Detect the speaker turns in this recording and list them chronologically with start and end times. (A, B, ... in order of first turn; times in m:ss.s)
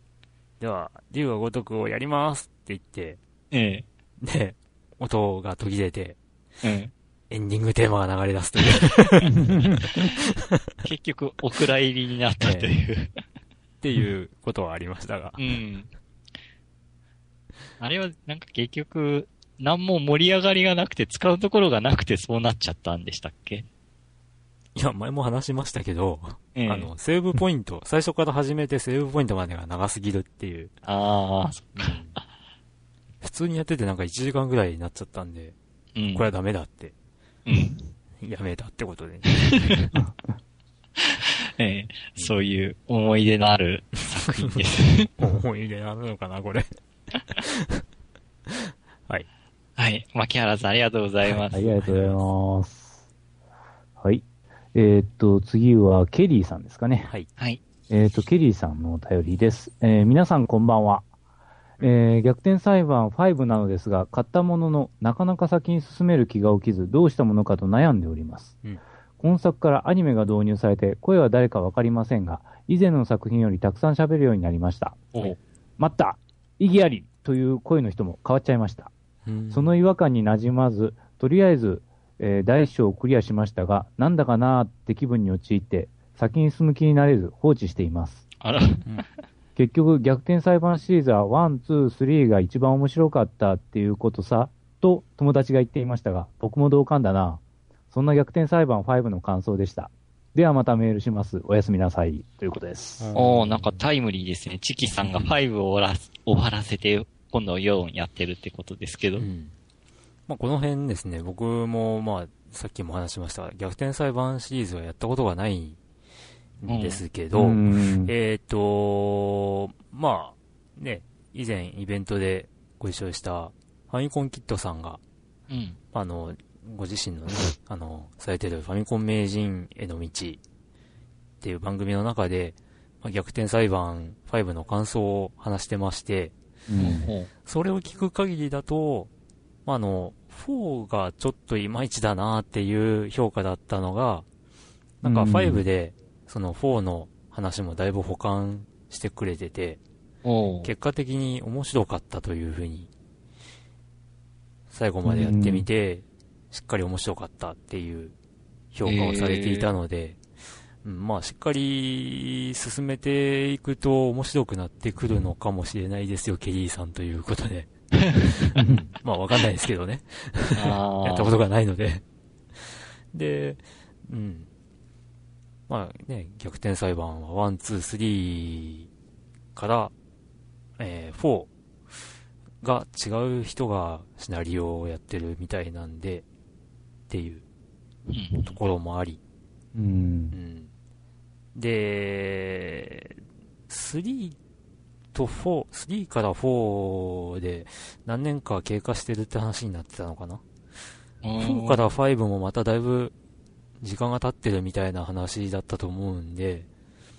0:00.6-0:03.2 A
0:03.5-0:03.8 B
0:04.2-0:06.2 A
0:06.6-0:06.9 B
0:07.3-0:10.4 A
0:08.7-0:10.1 B
0:09.3-0:09.8 C
0:10.8-0:13.1 B
0:12.4-0:12.7 A
0:13.8-0:15.4 A
0:15.4-0:15.9 B
0:17.8-0:23.6 B
0:24.7-0:30.7 A
0:26.5-0:26.9 B
0:30.8-0:32.0 B
0:31.8-0:32.2 A
0:33.2-0:35.6 A
0:36.0-0:36.2 B
0:36.1-0:36.9 A
0:37.4-0:37.8 B
0:38.2-0:39.5 A
0:39.6-0:39.9 B
0:41.0-0:45.1 B
0:44.2-0:44.6 A
0:45.2-0:46.6 A
0:47.2-0:47.8 A
0:48.5-0:49.3 A
0:49.8-0:51.9 B
0:51.3-0:52.1 A
0:51.5-0:52.9 C
0:54.0-0:57.1 C
0:57.4-0:57.6 B
0:57.9-1:01.0 C
1:01.8-1:08.6 C
1:09.2-1:15.0 C
1:15.8-1:18.9 C
1:19.2-1:19.7 A
1:19.5-1:28.2 C
1:28.4-1:29.0 B
1:29.6-1:43.1 C
1:43.0-1:43.7 A
1:43.1-1:49.3 B
1:45.0-1:45.3 A
1:49.2-1:49.5 A
1:50.3-1:55.8 A
1:56.6-2:05.0 A
1:56.6-1:57.0 B
1:57.3-1:58.1 C
2:05.5-2:05.8 B
2:05.9-2:10.4 A
2:11.4-2:16.3 A
2:16.7-2:17.0 C
2:16.8-2:17.3 B
2:17.4-2:19.1 A
2:19.6-2:24.2 A
2:25.0-2:29.8 A
2:25.0-2:25.6 C
2:30.2-2:30.7 B
2:30.6-2:32.9 A
2:34.7-2:38.1 A
2:35.0-2:35.7 C
2:38.7-2:40.2 A
2:38.8-2:39.7 B
2:40.8-2:47.7 A
2:48.0-2:48.3 B
2:48.3-2:52.0 A
2:50.5-2:51.3 B
2:53.1-2:54.5 A
2:55.7-2:58.9 A
2:59.5-2:59.9 A
3:00.8-3:01.5 A
3:02.6-3:06.2 A
3:07.1-3:07.4 A
3:08.1-3:08.6 B
3:08.4-3:09.2 A
3:09.7-3:10.4 C
3:10.3-3:10.7 A
3:11.5-3:13.1 A
3:13.7-3:14.4 A
3:15.1-3:20.4 A
3:21.2-3:21.8 B
3:21.4-3:23.1 A
3:23.8-3:26.7 A